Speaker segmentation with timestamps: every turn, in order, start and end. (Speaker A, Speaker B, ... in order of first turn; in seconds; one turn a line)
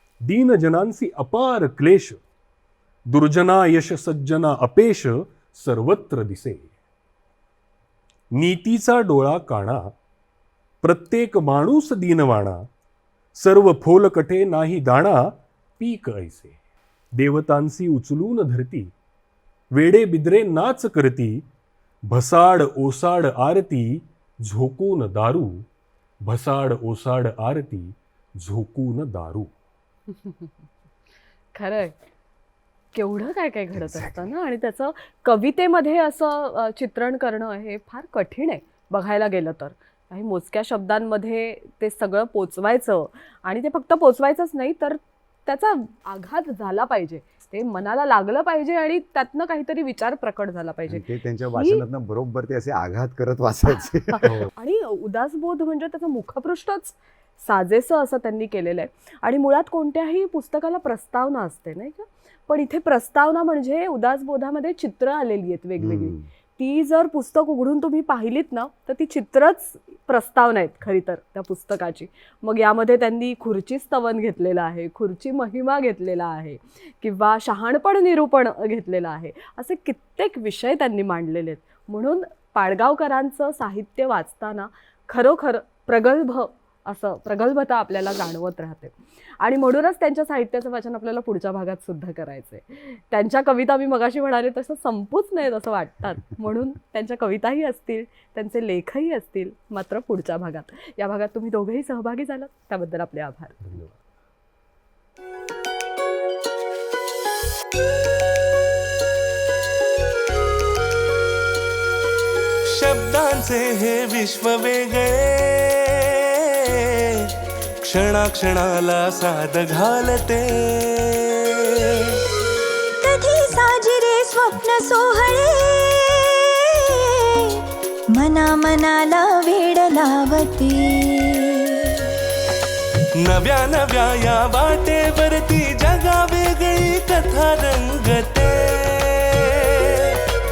Speaker A: 0.2-2.2
Speaker A: 3.1-6.7
Speaker A: 8.3-9.9
Speaker A: 10.8-12.7
Speaker A: 13.3-16.6
Speaker A: 17.1-18.9
Speaker A: 19.7-21.4
Speaker A: 22.1-25.7
Speaker A: 26.2-29.5
Speaker B: 30.1-30.5
Speaker B: 31.6-32.0
Speaker B: 32.9-51.8
Speaker C: 33.7-34.2
Speaker C: 50.9-54.5
Speaker B: 54.1-103.6
Speaker C: 65.8-66.2
Speaker A: 103.6-103.9
Speaker D: 112.7-117.3
Speaker D: 117.9-122.2
Speaker E: 123.0-132.1
Speaker D: 133.2-140.2